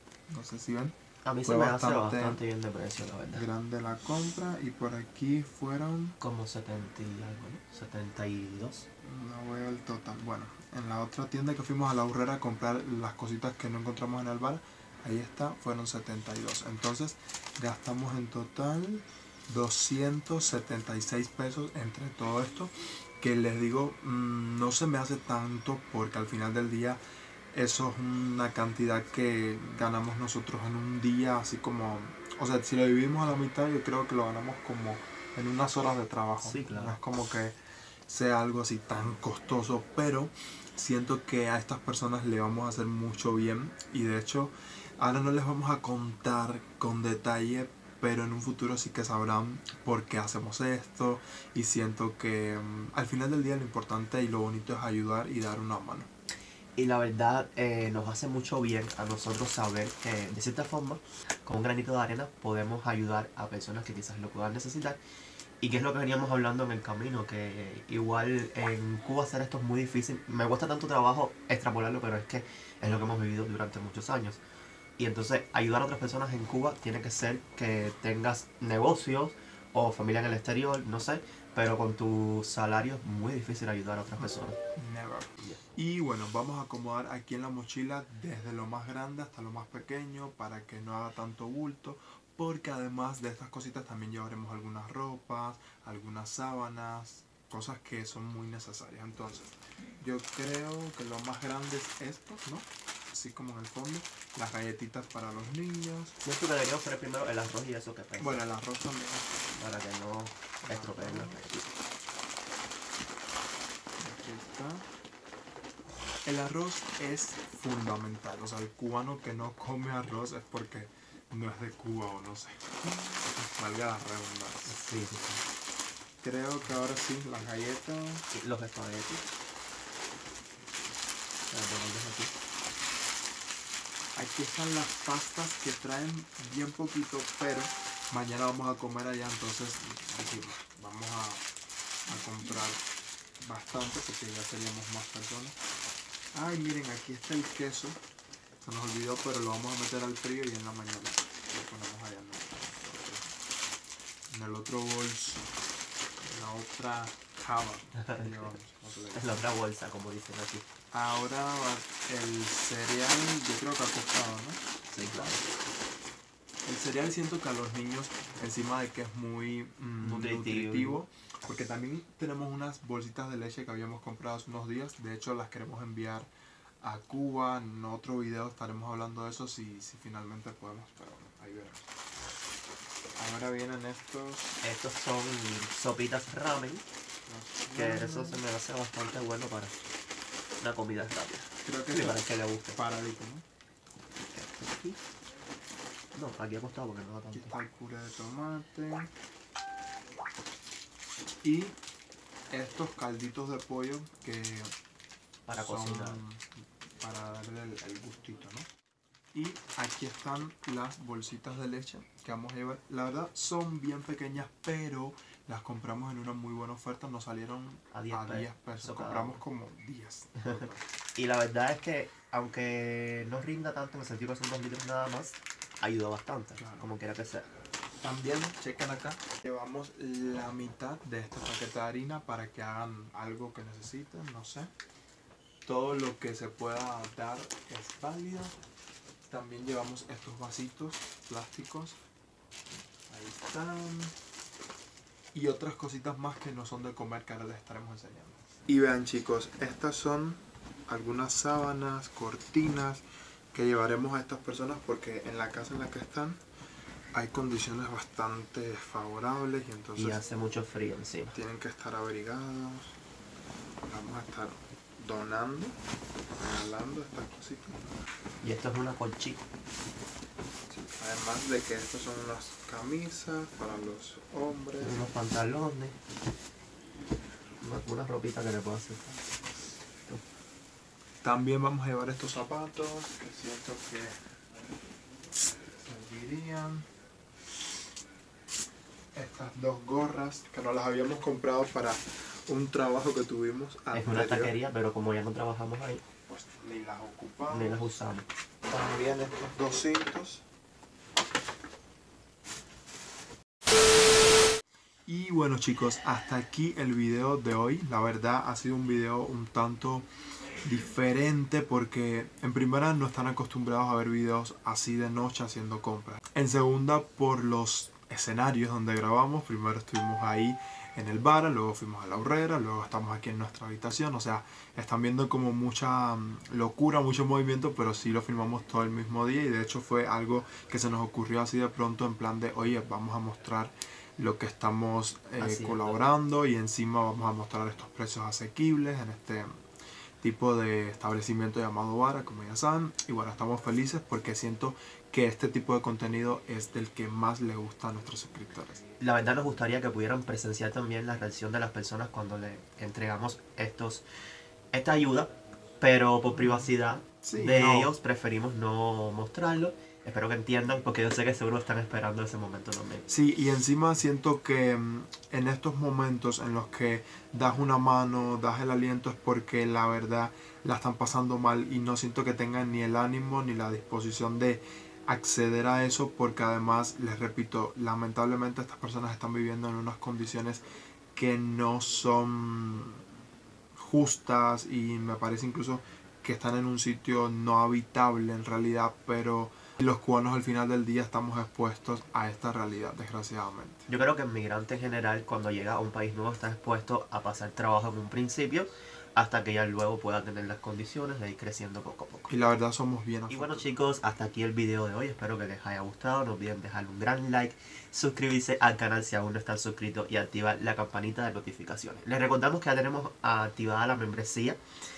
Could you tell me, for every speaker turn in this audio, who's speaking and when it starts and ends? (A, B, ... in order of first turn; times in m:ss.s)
0:00.3-0:02.4 A
0:01.2-0:03.5 B
0:03.3-0:06.2 A
0:06.2-0:08.9 B
0:09.0-0:56.1 A
0:36.4-0:37.0 B
0:56.8-1:05.0 B
1:05.6-1:14.4 B
1:15.0-1:24.6 B
1:24.2-1:46.2 A
1:46.2-1:48.4 B
1:48.2-1:49.3 A
1:49.5-1:51.8 B
1:50.6-1:51.4 A
1:54.0-1:54.9 A
1:56.2-2:04.8 A
2:04.7-2:05.4 B
2:06.2-2:08.3 A
2:08.3-2:09.2 B
2:11.5-2:12.3 B
2:14.2-2:21.5 A
2:22.1-2:22.8 A
2:23.4-2:25.6 A
2:26.3-2:28.0 A
2:28.6-2:33.4 A
2:34.3-2:35.6 A
2:36.2-2:39.5 A
2:38.0-2:38.5 B
2:39.2-2:40.7 B
2:40.9-2:45.4 A
2:44.9-2:45.4 B
2:46.6-2:56.3 A
2:50.0-2:51.0 B
2:56.8-3:01.9 A
3:03.2-3:04.6 A
3:04.6-3:06.8 B
3:07.3-3:08.4 A
3:07.8-3:09.8 B
3:10.6-3:12.8 B
3:11.6-3:13.4 A
3:14.3-3:15.0 B
3:16.1-3:17.6 B
3:17.3-3:19.1 A
3:21.4-3:21.8 A
3:22.5-3:24.7 A
3:25.5-3:26.2 B
3:25.5-3:26.5 A
3:27.0-3:28.7 A
3:29.3-3:40.9 A
3:37.9-3:39.4 B
3:41.2-3:47.5 B
3:46.6-3:46.9 A
3:48.0-3:54.7 A
3:55.6-3:58.6 A
3:59.3-4:02.0 A
4:03.1-4:04.2 A
4:05.3-4:16.4 A
4:17.1-4:20.2 A
4:20.0-4:21.4 B
4:21.3-4:23.0 A
4:23.8-4:25.8 A
4:26.4-4:27.9 A
4:28.4-4:29.4 B
4:30.7-4:35.1 A
4:34.8-4:36.0 B
4:37.6-4:39.4 B
4:41.2-4:44.2 A
4:45.7-4:46.9 A
4:49.1-4:54.6 A
4:53.9-4:56.0 B
4:56.3-4:57.9 A
4:57.5-4:58.3 B
4:58.7-5:00.4 A
5:05.1-5:10.1 A
5:10.6-5:39.5 A
5:35.4-5:36.0 B
5:40.2-5:48.8 A
5:49.0-5:54.0 B
5:54.7-6:03.0 B
5:56.4-5:56.6 A
5:57.2-5:57.9 A
6:03.1-6:20.6 A
6:21.1-6:23.0 A
6:23.7-6:33.9 A
6:33.9-6:42.3 B
6:42.3-6:43.7 A
6:43.3-6:54.6 B